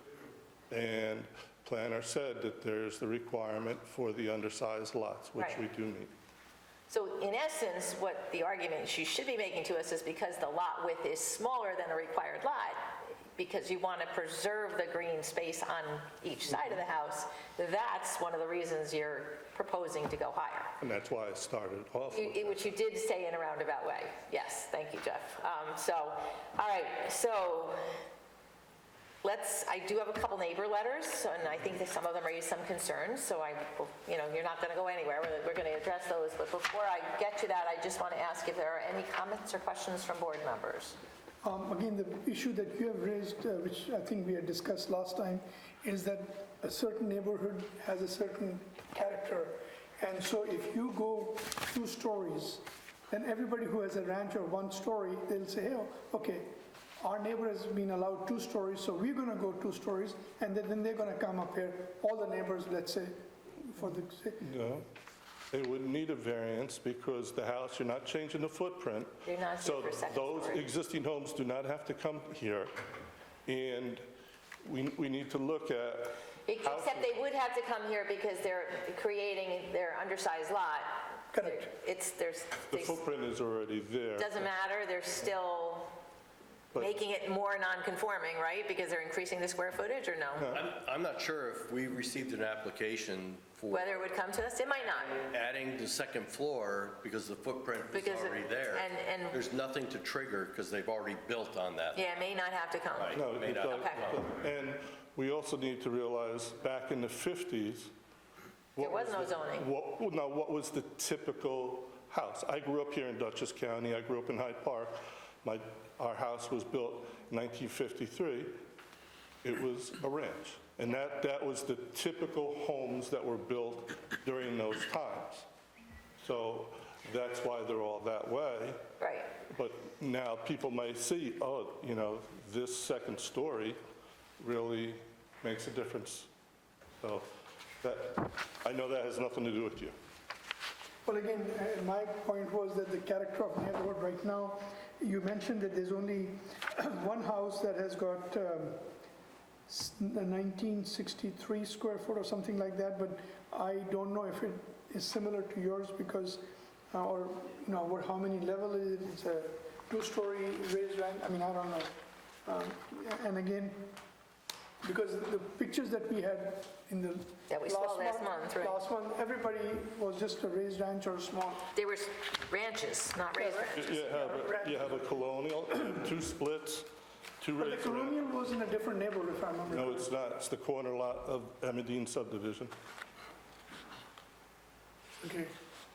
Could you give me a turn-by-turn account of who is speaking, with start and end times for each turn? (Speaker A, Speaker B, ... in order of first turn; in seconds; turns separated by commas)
Speaker A: 0.7-6.1, Speaker B: 5.3-5.6, Speaker B: 6.9-20.7, Speaker A: 20.8-22.6, Speaker B: 22.1-28.0, Speaker B: 29.2-41.0, Speaker C: 41.4-64.5, Speaker A: 64.4-64.8, Speaker A: 65.5-72.7, Speaker B: 69.2-70.7, Speaker A: 73.5-74.0, Speaker A: 74.6-77.3, Speaker B: 76.5-83.0, Speaker C: 81.3-81.7, Speaker A: 82.7-84.5, Speaker B: 84.2-86.0, Speaker B: 86.7-90.6, Speaker D: 90.5-94.2, Speaker B: 93.7-95.2, Speaker D: 95.1-102.0, Speaker B: 97.9-99.4, Speaker B: 101.9-104.1, Speaker D: 103.0-104.2, Speaker A: 103.1-107.9, Speaker A: 108.8-118.6, Speaker B: 108.8-109.7, Speaker A: 119.4-125.5, Speaker A: 126.2-128.8, Speaker B: 129.0-129.3, Speaker A: 129.5-133.8, Speaker A: 134.4-136.3, Speaker A: 137.0-139.9, Speaker C: 141.0-148.9, Speaker C: 149.7-161.9, Speaker C: 162.4-164.0, Speaker C: 164.8-171.7, Speaker B: 167.5-168.8, Speaker B: 171.7-174.1, Speaker C: 173.3-175.1, Speaker A: 173.7-178.2, Speaker C: 177.6-180.1, Speaker A: 179.7-182.7, Speaker C: 185.2-185.5